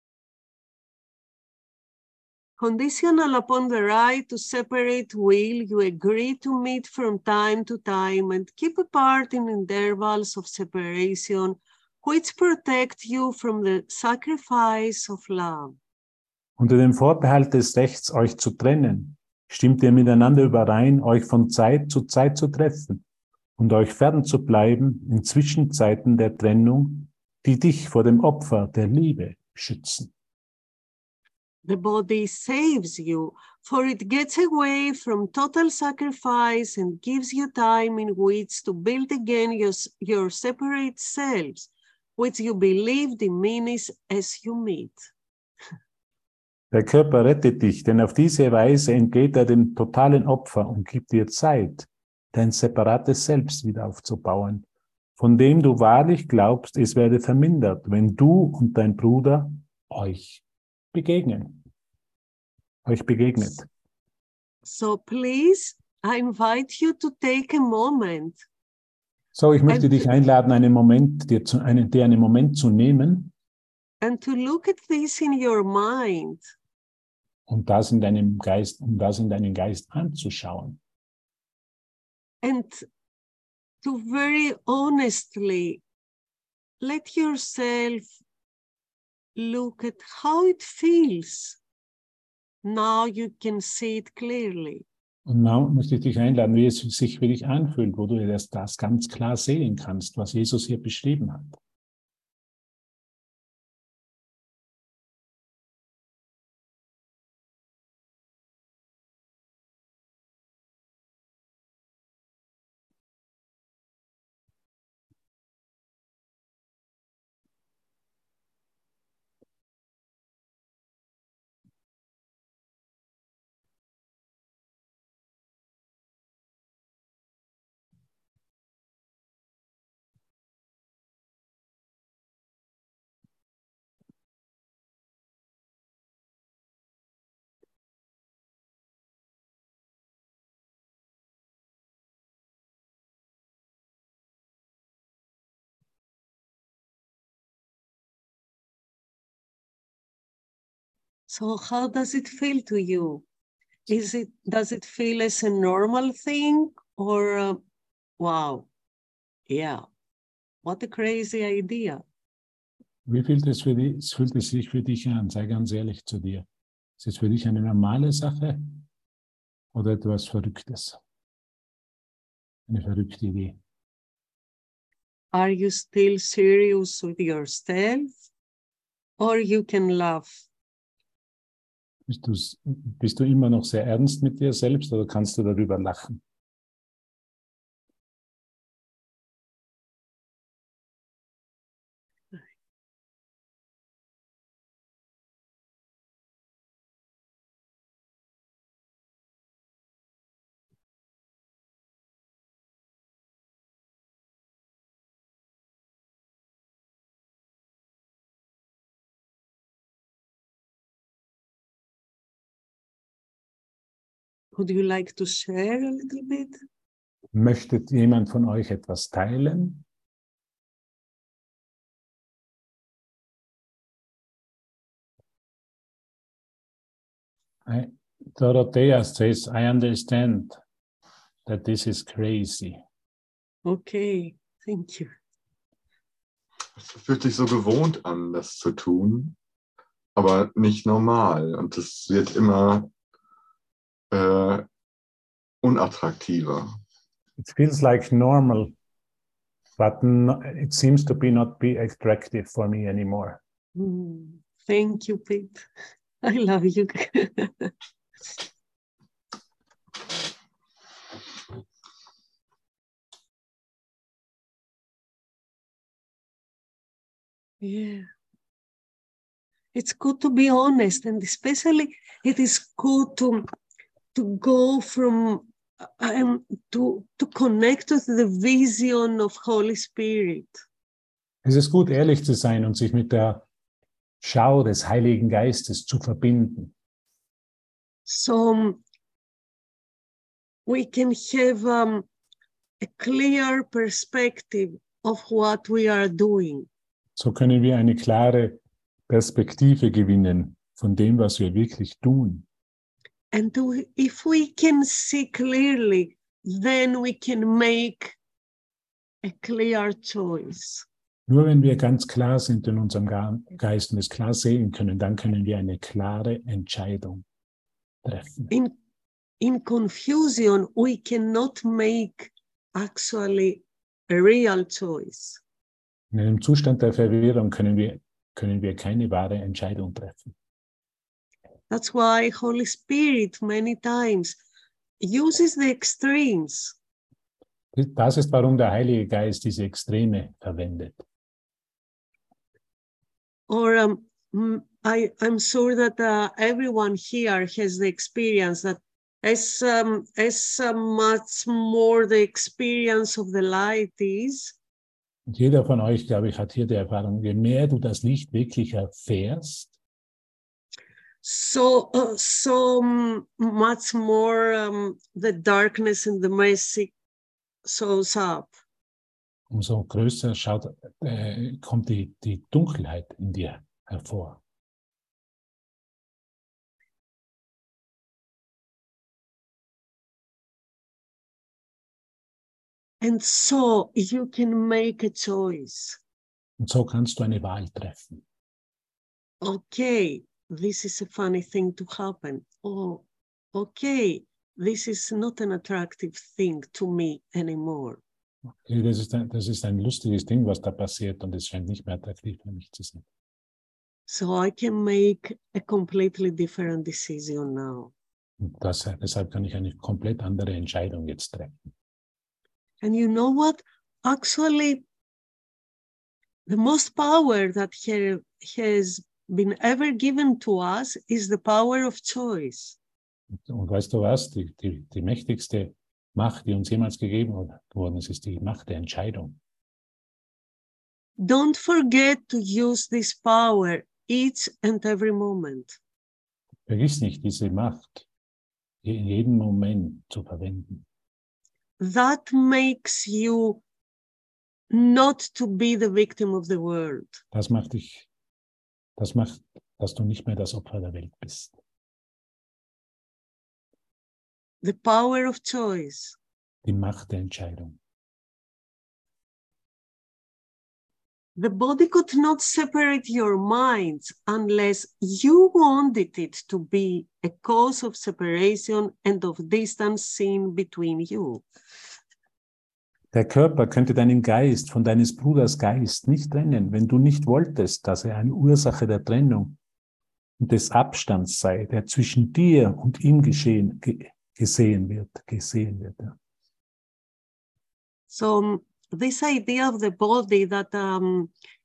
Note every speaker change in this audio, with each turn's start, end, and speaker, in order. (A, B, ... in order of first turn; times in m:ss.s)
0:02.6-0:15.8 A
0:16.6-0:23.0 B
0:23.6-0:30.1 B
0:31.6-0:45.0 A
0:46.7-0:54.7 B
0:55.2-1:01.6 B
1:02.8-1:03.7 B
1:04.6-1:08.4 A
1:09.4-1:13.3 B
1:09.7-1:10.0 A
1:14.0-1:16.4 A
1:17.5-1:20.8 B
1:22.4-1:22.9 A
1:23.8-1:25.8 A
1:26.8-1:28.1 A
1:29.4-1:31.6 A
1:32.6-1:34.8 A
1:35.3-1:41.6 B
2:31.3-2:33.2 A
2:33.9-2:37.6 A
2:38.2-2:38.7 A
2:39.5-2:39.8 A
2:40.6-2:42.0 A
2:43.1-2:46.5 B
2:47.0-2:48.8 B
2:49.7-2:51.0 B
2:52.7-2:53.6 B
2:55.3-2:58.1 A
2:59.2-3:00.4 A
3:02.1-3:06.2 B
3:34.5-3:36.6 A
3:37.3-3:39.8 B
3:47.7-3:50.6 B
3:51.5-3:52.8 B
3:53.6-3:55.1 A
3:56.8-3:59.4 C
4:00.2-4:02.9 C
4:04.1-4:04.7 C
4:05.6-4:06.7 C
4:07.4-4:08.7 B
4:09.8-4:13.4 B
4:13.8-4:15.7 A
4:16.2-4:17.7 A
4:27.6-4:28.1 A
4:29.7-4:33.5 A
4:34.1-4:40.6 A
4:41.4-4:43.4 B
4:44.2-4:46.7 B
4:48.1-4:48.8 A
4:50.7-4:52.1 A
4:52.8-4:56.7 A
4:57.2-4:58.6 B
4:59.1-5:02.4 B
5:03.3-5:08.2 A
5:09.2-5:10.9 A
5:11.3-5:17.2 B
5:18.0-5:18.5 B
5:19.4-5:25.4 A
5:26.1-5:30.3 B
5:31.7-5:34.4 A
5:35.0-5:36.8 A
5:37.7-5:41.0 B
5:43.5-5:54.6 A
5:55.3-5:59.7 B
6:01.2-6:06.9 A
6:07.6-6:08.5 A
6:09.5-6:14.4 B
6:23.0-6:26.0 A
6:26.6-6:28.2 B
6:29.4-6:38.0 A
6:38.6-6:43.0 B
6:44.1-6:47.9 A
6:48.4-6:51.6 B
6:52.8-6:54.8 A
6:56.5-7:02.8 A
7:03.5-7:09.4 B
7:11.2-7:15.8 A
7:16.7-7:18.0 B
7:18.8-7:20.8 B
7:21.8-7:23.6 A
7:24.7-7:27.2 A
7:27.3-7:28.1 B
7:29.0-7:31.5 B
7:34.6-7:36.2 A
7:36.6-7:37.8 B
7:41.4-7:51.4 A
7:53.1-7:59.6 B
8:00.4-8:06.2 B
8:08.1-8:11.3 A